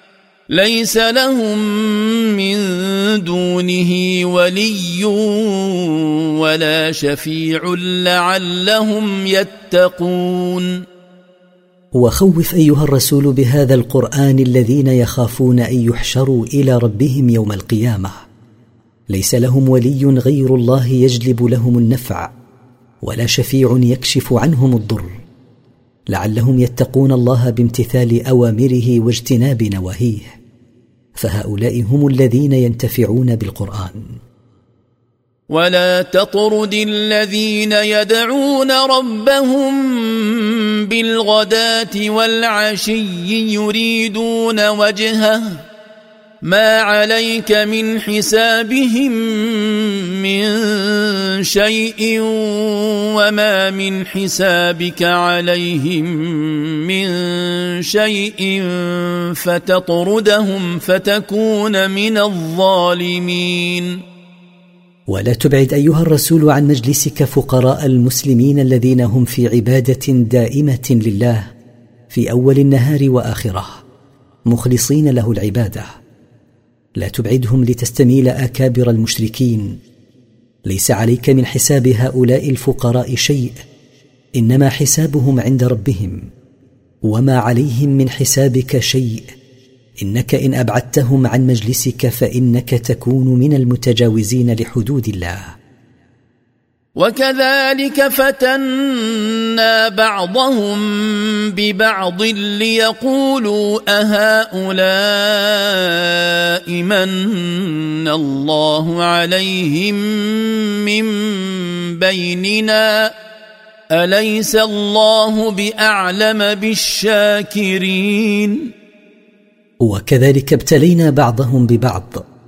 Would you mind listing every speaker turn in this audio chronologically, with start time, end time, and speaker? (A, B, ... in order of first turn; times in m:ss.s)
0:00.5-0:10.8 A
0:12.0-0:18.2 B
0:19.1-0:22.3 B
0:23.0-0:25.2 B
0:26.1-0:30.4 B
0:31.2-0:34.2 B
0:35.5-0:45.6 A
0:46.4-1:04.0 A
1:05.1-1:11.4 B
1:12.1-1:13.8 B
1:14.5-1:15.9 B
1:17.0-1:19.8 B
1:20.7-1:23.6 B
1:24.4-1:26.2 B
1:27.0-1:29.3 B
1:30.0-1:35.5 B
1:37.0-1:53.1 A
1:53.9-1:58.7 A
1:59.8-2:02.2 B